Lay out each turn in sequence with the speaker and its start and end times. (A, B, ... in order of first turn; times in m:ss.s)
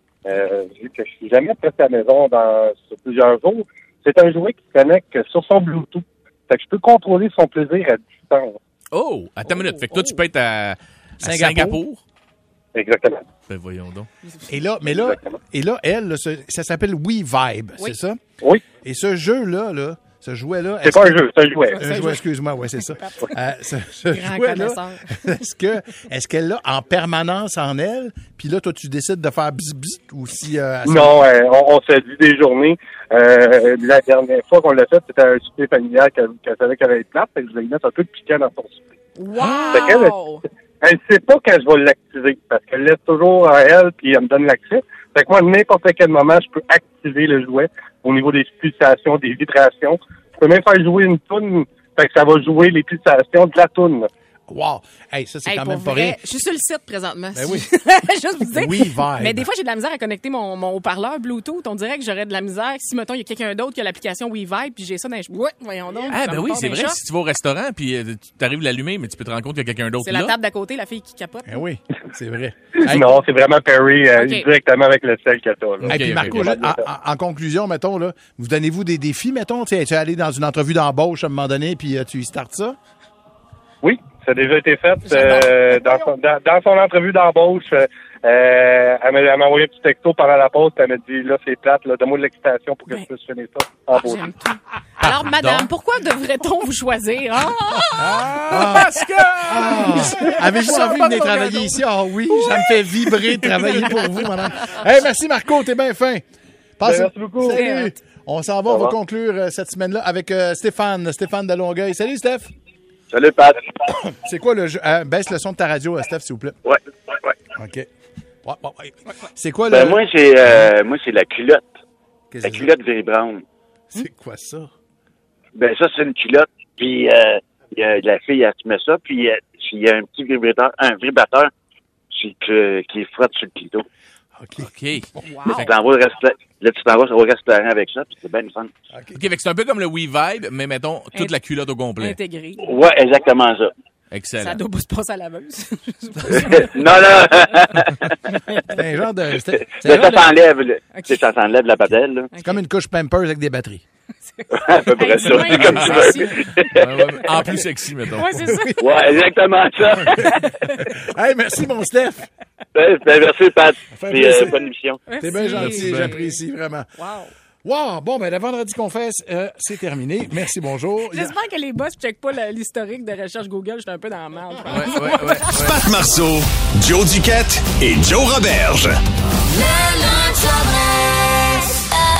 0:00.2-0:08.6 A
0:08.9-0:12.0 B
0:11.2-0:11.8 C
0:12.8-0:13.2 A
0:13.5-0:14.1 B
0:14.2-0:14.6 D
0:14.5-0:18.2 C
0:14.9-0:15.3 A
0:18.7-0:31.2 C
0:20.8-0:21.7 A
0:21.7-0:22.2 D
0:22.9-0:23.3 D
0:24.1-0:25.1 D
0:30.8-0:38.8 A
0:39.2-0:40.4 D
0:39.4-0:39.9 B
0:39.7-0:40.1 A
0:40.8-0:54.1 A
0:54.5-0:56.2 C
0:55.5-1:07.0 D
0:57.4-0:57.7 C
0:58.5-0:59.5 C
1:06.1-1:10.3 B
1:10.0-1:11.6 D
1:11.5-1:13.1 C
1:12.8-1:16.8 A
1:14.1-1:14.5 D
1:15.8-1:16.5 B
1:15.8-1:22.8 C
1:23.8-1:34.3 A
1:25.0-1:26.1 D
1:33.9-1:38.9 D
1:35.0-1:35.7 B
1:37.9-1:40.1 B
1:38.0-1:46.2 C
1:39.5-1:44.0 D
1:46.8-1:52.5 C
1:46.8-1:47.6 A
1:47.4-1:48.0 D
1:53.1-1:53.6 E
1:54.1-1:56.6 C
1:56.7-1:57.3 E
1:57.5-1:57.9 C
1:58.4-2:00.7 C
1:59.7-2:01.7 E
2:02.3-2:02.8 C
2:02.4-2:03.4 E
2:03.9-2:04.7 C
2:05.6-2:11.5 E
2:12.1-2:13.8 E
2:14.4-2:14.7 C
2:14.6-2:15.7 B
2:15.2-2:15.7 D
2:15.5-2:18.7 E
2:18.9-2:19.2 C
2:19.1-2:22.2 B
2:22.0-2:22.7 D
2:22.6-2:23.7 E
2:24.1-2:24.6 B
2:24.4-2:26.8 D
2:26.3-2:28.3 E
2:28.7-2:30.3 C
2:29.6-2:32.3 E
2:30.9-2:31.2 D
2:32.3-2:32.6 D
2:32.4-2:33.8 C
2:34.3-2:36.8 D
2:34.5-2:37.1 E
2:35.5-2:36.0 B
2:36.7-2:38.3 B
2:38.1-2:39.0 D
2:38.4-2:39.1 C
2:38.8-2:40.4 E
2:40.0-2:42.3 C
2:40.2-2:40.8 D
2:42.7-2:45.0 E
2:43.9-2:44.6 C
2:45.1-2:46.4 D
2:45.2-2:46.9 C
2:45.5-2:46.1 B
2:47.0-2:47.3 D
2:47.6-2:51.4 C
2:51.1-2:55.7 D
2:54.7-2:55.9 B
2:55.6-2:59.0 F